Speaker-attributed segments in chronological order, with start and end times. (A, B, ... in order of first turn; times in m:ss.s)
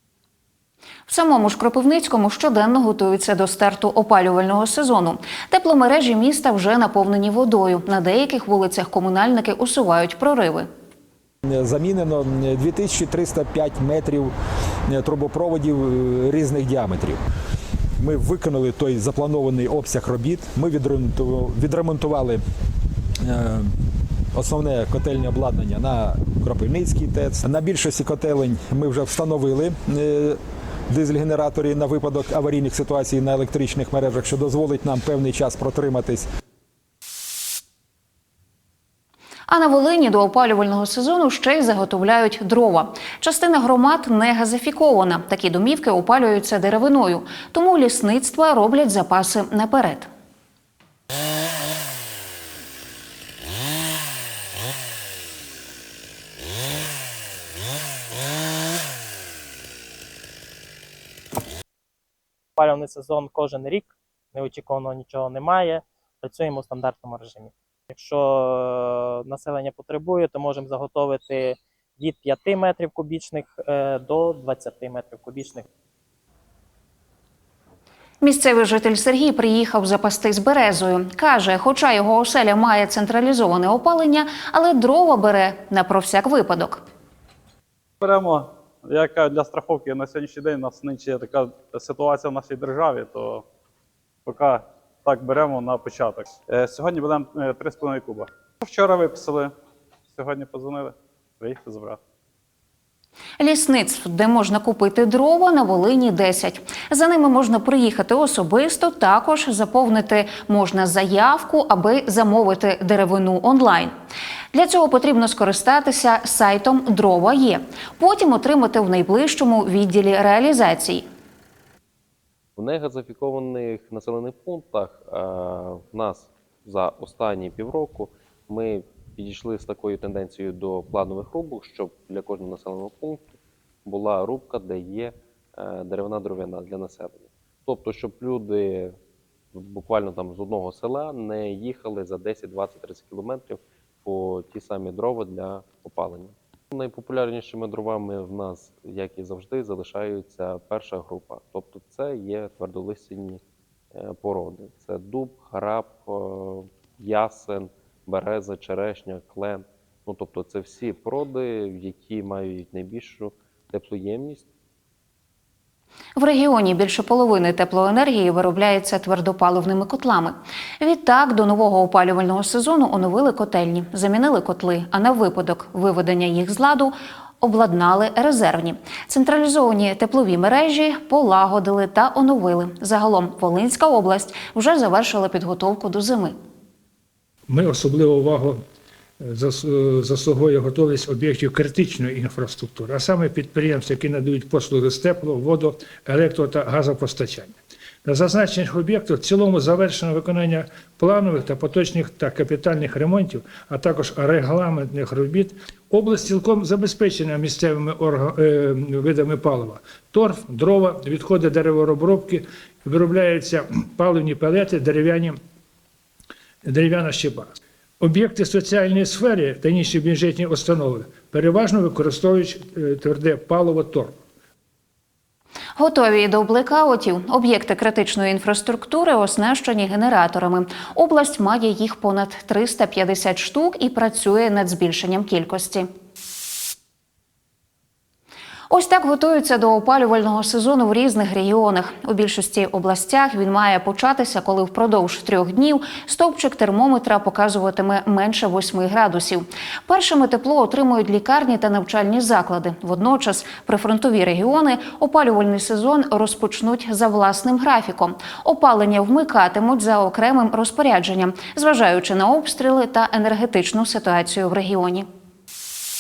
0:01.1-0:10.7 A
0:11.5-0:14.3 B
0:14.9-0:17.2 B
0:18.0-0:22.4 B
0:23.2-0:23.7 B
0:24.3-0:30.4 B
0:30.9-0:36.2 B
0:39.5-0:50.1 A
1:02.6-1:15.7 C
1:18.2-1:26.8 A
1:28.0-1:33.4 D
1:34.3-1:39.5 D
1:40.1-1:42.0 D
1:43.4-1:53.9 A
1:54.5-2:01.1 A
2:02.6-2:13.3 E
2:13.9-2:19.0 E
2:19.5-2:33.4 E
2:33.9-2:44.5 E
2:46.2-3:06.4 A
3:07.5-3:08.6 F
3:09.2-3:35.4 F
3:36.6-3:44.2 F
3:45.8-3:55.9 A
3:58.7-4:25.1 A